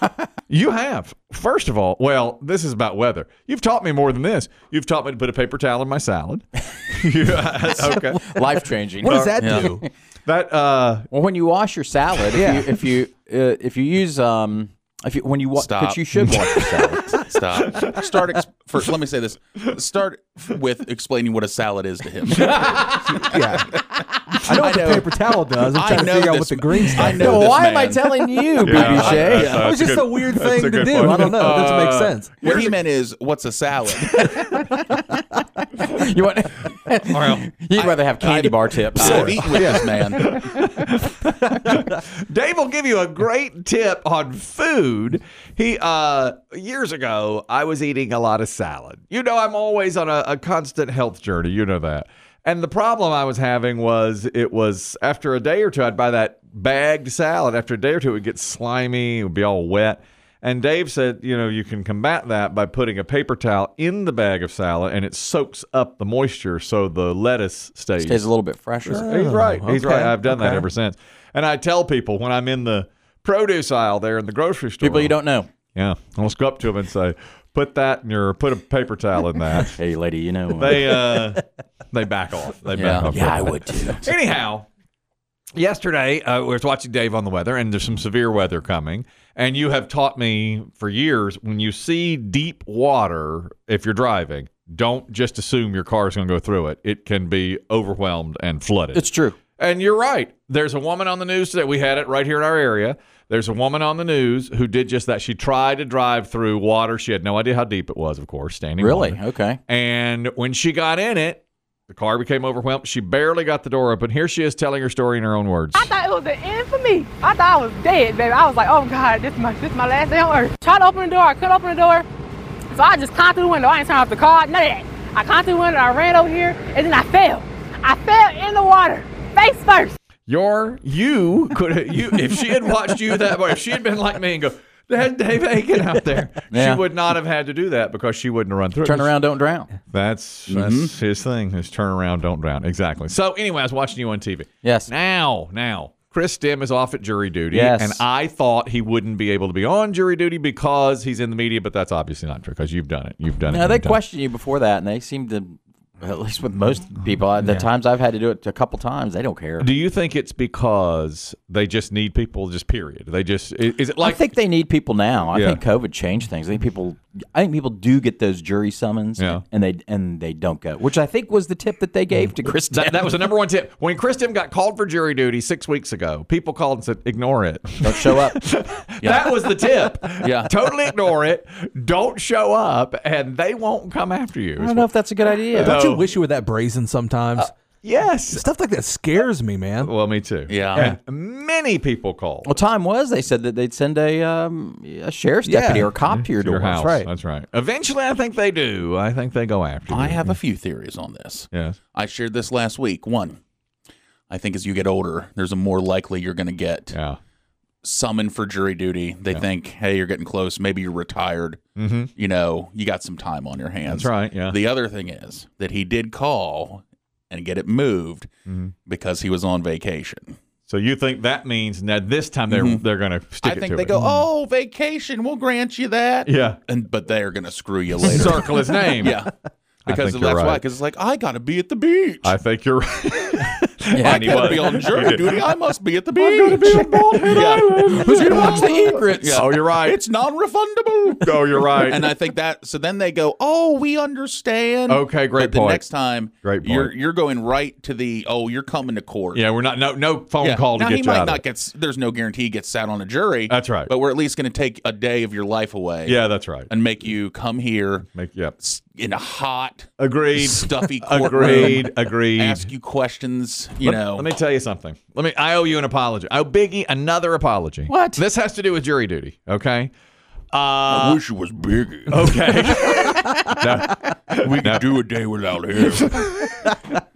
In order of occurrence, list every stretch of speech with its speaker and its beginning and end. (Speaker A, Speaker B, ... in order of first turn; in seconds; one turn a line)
Speaker A: 0.5-8.3
Speaker B: 7.7-9.8
Speaker A: 9.0-11.1
Speaker C: 9.0-9.7
Speaker D: 9.4-9.7
Speaker B: 11.1-17.2
Speaker C: 12.3-12.6
Speaker D: 15.6-16.1
Speaker A: 16.2-17.0
Speaker D: 16.6-23.6
Speaker A: 17.7-18.1
Speaker A: 22.3-23.2
Speaker C: 23.1-23.8
Speaker C: 24.4-27.5
Speaker D: 24.4-29.7
Speaker B: 27.0-29.6
Speaker A: 28.6-32.7
Speaker C: 29.0-32.6
Speaker D: 32.4-34.5
Speaker B: 34.1-39.8
Speaker A: 37.1-37.5
Speaker D: 37.8-40.3
Speaker A: 39.0-68.3
Speaker B: 68.0-69.1
Speaker A: 68.9-75.2
Speaker C: 68.9-70.7
Speaker B: 74.8-75.5
Speaker A: 75.7-79.8
Speaker B: 79.7-81.3
Speaker A: 80.5-84.7
Speaker D: 82.7-83.4
Speaker B: 82.9-84.1
Speaker A: 85.5-99.0
Speaker B: 98.9-99.4
Speaker A: 99.6-115.9
Speaker B: 108.8-109.6
Speaker E: 115.7-122.0
Speaker E: 122.7-129.9
Speaker A: 130.3-139.2
Speaker B: 136.5-136.8
Speaker B: 138.8-139.7
Speaker A: 139.9-154.0
Speaker D: 140.5-140.9
Speaker B: 144.6-144.9
Speaker B: 147.5-148.0
Speaker B: 153.5-159.7
Speaker A: 159.6-164.2
Speaker B: 164.0-173.2
Speaker A: 165.3-165.6
Speaker A: 169.2-169.4
Speaker A: 172.7-184.9
Speaker B: 177.8-178.4
Speaker D: 179.0-179.3
Speaker D: 180.2-180.5
Speaker B: 184.6-185.8
Speaker C: 185.5-187.5
Speaker A: 185.5-186.1
Speaker A: 187.4-188.5
Speaker C: 188.3-189.9
Speaker A: 189.8-192.6
Speaker D: 190.5-190.9
Speaker B: 192.4-197.1
Speaker A: 195.5-200.3
Speaker D: 199.9-203.4
Speaker A: 201.5-201.8
Speaker D: 204.3-206.9
Speaker A: 206.9-207.2
Speaker D: 207.8-211.6
Speaker A: 211.8-212.1
Speaker D: 212.2-218.3
Speaker A: 213.9-214.6
Speaker A: 218.5-218.7
Speaker D: 218.8-220.3
Speaker A: 220.7-224.0
Speaker D: 222.5-222.8
Speaker D: 223.4-229.3
Speaker A: 226.2-226.6
Speaker A: 228.0-229.2
Speaker B: 228.1-228.3
Speaker A: 229.8-230.6
Speaker D: 229.8-232.3
Speaker A: 232.2-235.3
Speaker B: 233.9-234.8
Speaker D: 234.0-249.4
Speaker A: 236.2-240.0
Speaker B: 237.2-239.5
Speaker A: 241.2-242.1
Speaker A: 244.9-245.8
Speaker A: 246.4-246.9
Speaker A: 249.3-251.4
Speaker D: 250.4-258.1
Speaker A: 253.5-253.9
Speaker A: 256.1-256.7
Speaker A: 258.1-258.6
Speaker D: 258.6-264.3
Speaker A: 260.0-262.7
Speaker A: 263.8-269.9
Speaker B: 267.9-268.2
Speaker A: 270.5-271.2
Speaker D: 270.9-273.1
Speaker A: 272.1-274.8
Speaker D: 274.4-276.3
Speaker A: 275.9-276.7